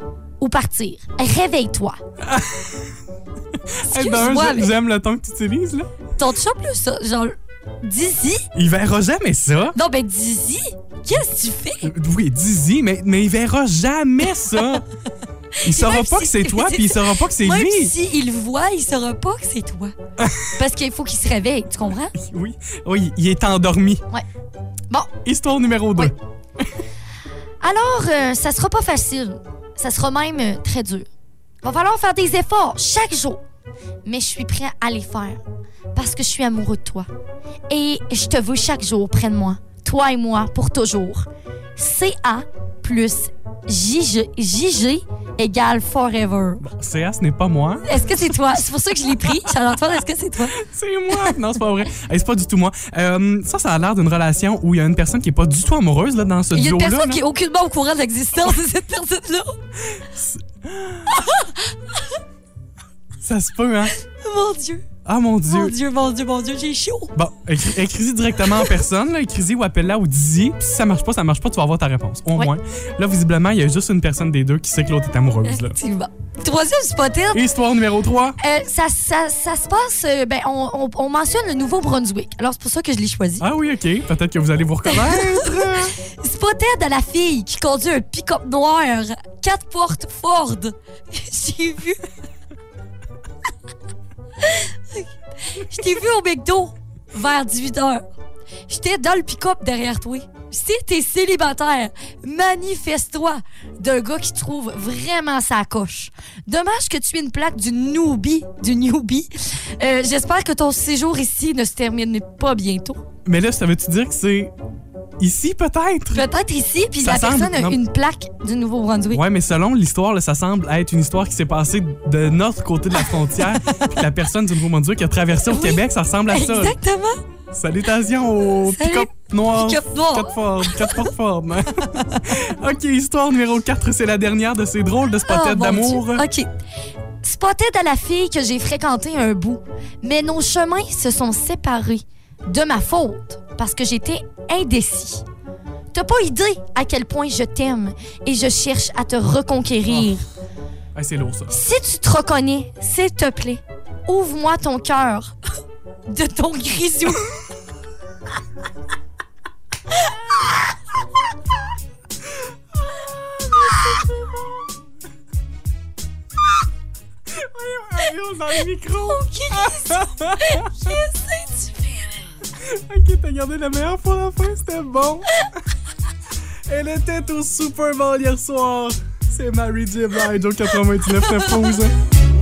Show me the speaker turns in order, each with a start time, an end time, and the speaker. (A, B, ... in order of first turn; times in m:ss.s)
0:00.4-0:02.0 A
0:02.2-0:02.9 B
0:03.7-0:05.9 B
0:03.9-0:04.7 A
0:06.2-0:08.5 A
0:08.6-0:09.8 B
0:09.8-0:11.9 A
0:11.8-0:14.9 B
0:15.6-0:20.0 A
0:15.6-0:17.9 B
0:20.2-0:20.5 B
0:20.5-0:22.1 A
0:22.1-0:24.0 B
0:25.2-0:26.2 B
0:27.6-0:31.1 A
0:31.6-0:33.4 A
0:34.0-0:35.4 A
0:36.0-0:37.1 A
0:37.7-0:46.6 A
0:46.6-0:47.9 B
0:47.8-0:50.6 A
0:50.5-0:57.2 B
0:56.5-0:59.6 A
0:59.9-1:01.2 B
1:01.1-1:01.6 A
1:03.2-1:03.9 B
1:04.0-1:04.9 A
1:05.0-1:05.8 B
1:05.5-1:07.1 A
1:07.2-1:15.8 B
1:15.5-1:17.4 A
1:17.3-1:18.4 B
1:18.4-1:23.5 A
1:23.4-1:26.0 B
1:24.9-1:32.1 A
1:34.4-1:38.0 A
1:38.7-1:53.0 A
1:53.3-1:54.5 B
1:55.2-1:56.3 B
1:56.1-1:59.2 A
1:57.0-1:57.8 B
1:59.1-2:06.8 B
2:03.6-2:03.9 A
2:05.5-2:07.2 A
2:07.5-2:16.3 B
2:08.6-2:11.1 A
2:15.3-2:16.5 A
2:17.2-2:25.2 A
2:25.9-2:30.3 A
2:31.0-2:31.5 B
2:31.5-2:35.4 A
2:36.1-2:37.3 A
2:47.3-2:50.9 B
2:49.1-2:52.1 A
2:52.6-2:55.5 B
2:56.7-3:01.9 B